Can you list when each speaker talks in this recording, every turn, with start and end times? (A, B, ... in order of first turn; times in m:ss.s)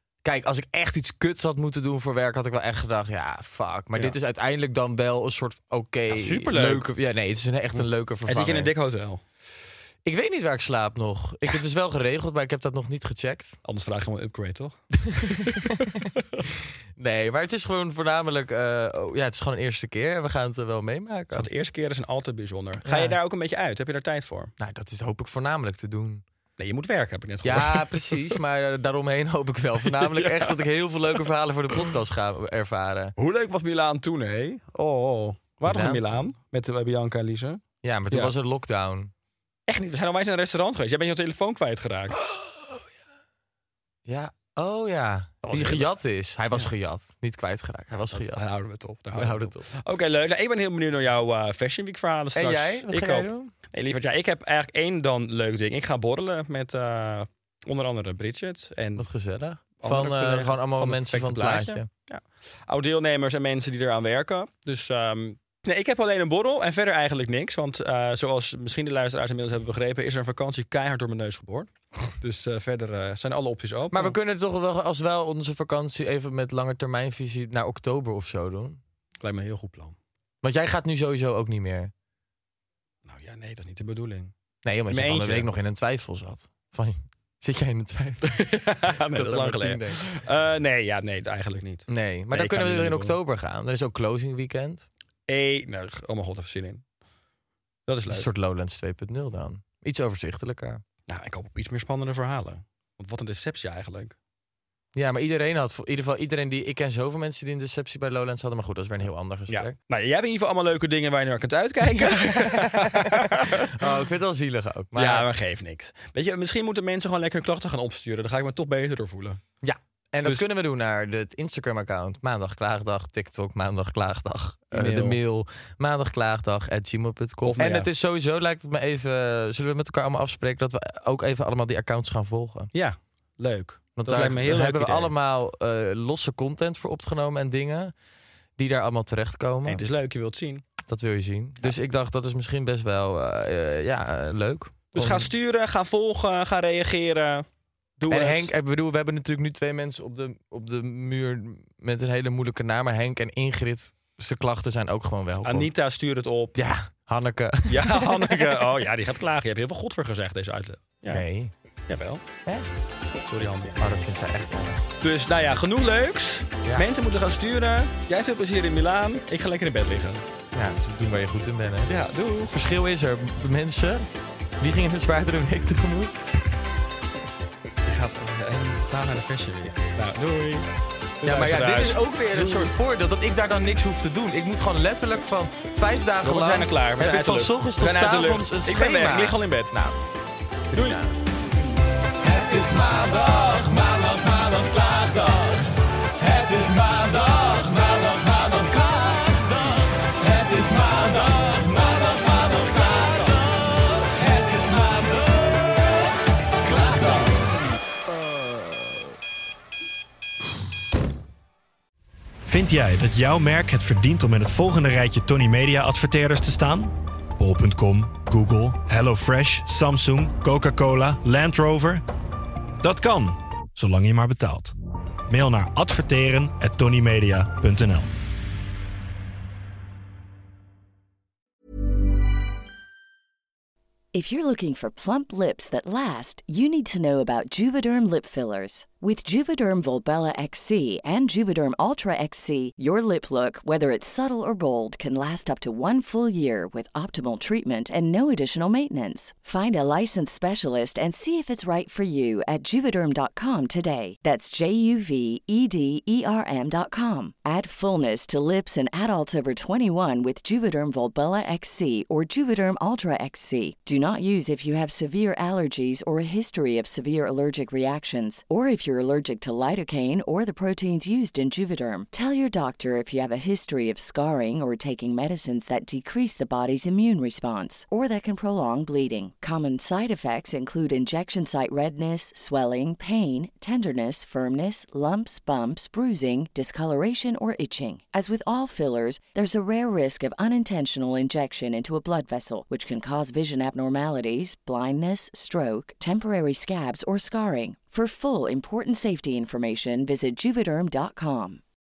0:00.2-0:08.7 A
0:06.1-0:06.9 B
0:07.8-0:09.2 B
0:10.0-0:13.6 A
0:13.6-0:14.8 B
0:15.0-0:16.4 A
0:15.3-0:15.6 B
0:17.0-0:21.5 A
0:21.3-0:24.5 B
0:22.8-0:23.2 A
0:24.6-0:26.2 A
0:26.6-0:28.4 B
0:27.4-0:33.2 A
0:30.0-0:30.5 B
0:33.2-0:38.3 B
0:35.6-0:36.2 A
0:37.8-0:39.1 A
0:39.7-0:42.2 B
0:44.1-0:48.4 A
0:45.4-0:45.9 B
0:48.0-0:59.0 B
0:49.1-0:49.7 A
0:52.4-0:53.5 A
0:59.0-1:01.9 A
0:59.8-1:14.2 B
1:13.9-1:18.8 A
1:19.2-1:20.0 B
1:20.4-1:21.9 A
1:23.1-1:24.3 B
1:24.6-1:28.4 A
1:24.9-1:25.5 B
1:28.3-1:33.2 B
1:29.1-1:30.0 A
1:31.9-1:34.9 A
1:35.3-1:36.8 B
1:37.9-1:38.3 B
1:38.1-1:40.8 A
1:41.1-1:44.2 B
1:45.0-1:49.7 A
1:49.5-1:53.9 B
1:51.8-1:55.3 A
1:54.9-1:59.4 B
1:59.6-2:12.7 A
2:04.7-2:05.2 B
2:07.4-2:07.9 B
2:12.7-2:15.1 B
2:14.0-2:17.9 A
2:18.6-2:19.8 A
2:19.7-2:20.6 B
2:20.9-2:25.3 A
2:24.9-2:27.5 B
2:28.0-2:28.5 B
2:28.1-2:35.7 A
2:35.4-2:36.6 B
2:36.6-2:38.7 A
2:37.7-2:41.2 B
2:41.1-2:41.5 A
2:41.9-2:42.2 B
2:42.5-2:42.7 A
2:43.2-2:44.0 B
2:43.8-2:44.8 A
2:45.0-2:50.2 B
2:50.5-2:51.9 A
2:51.9-2:52.5 B
2:52.5-2:54.1 A
2:54.6-2:56.2 A
2:57.8-3:02.7 B
3:01.2-3:10.0 A
3:06.2-3:09.7 B
3:10.7-3:11.0 B
3:10.7-3:11.2 A
3:12.2-3:26.0 A
3:26.6-3:27.3 A
3:32.4-3:42.0 C
3:42.8-3:44.7 C
3:45.3-3:48.1 C
3:54.1-5:01.6 D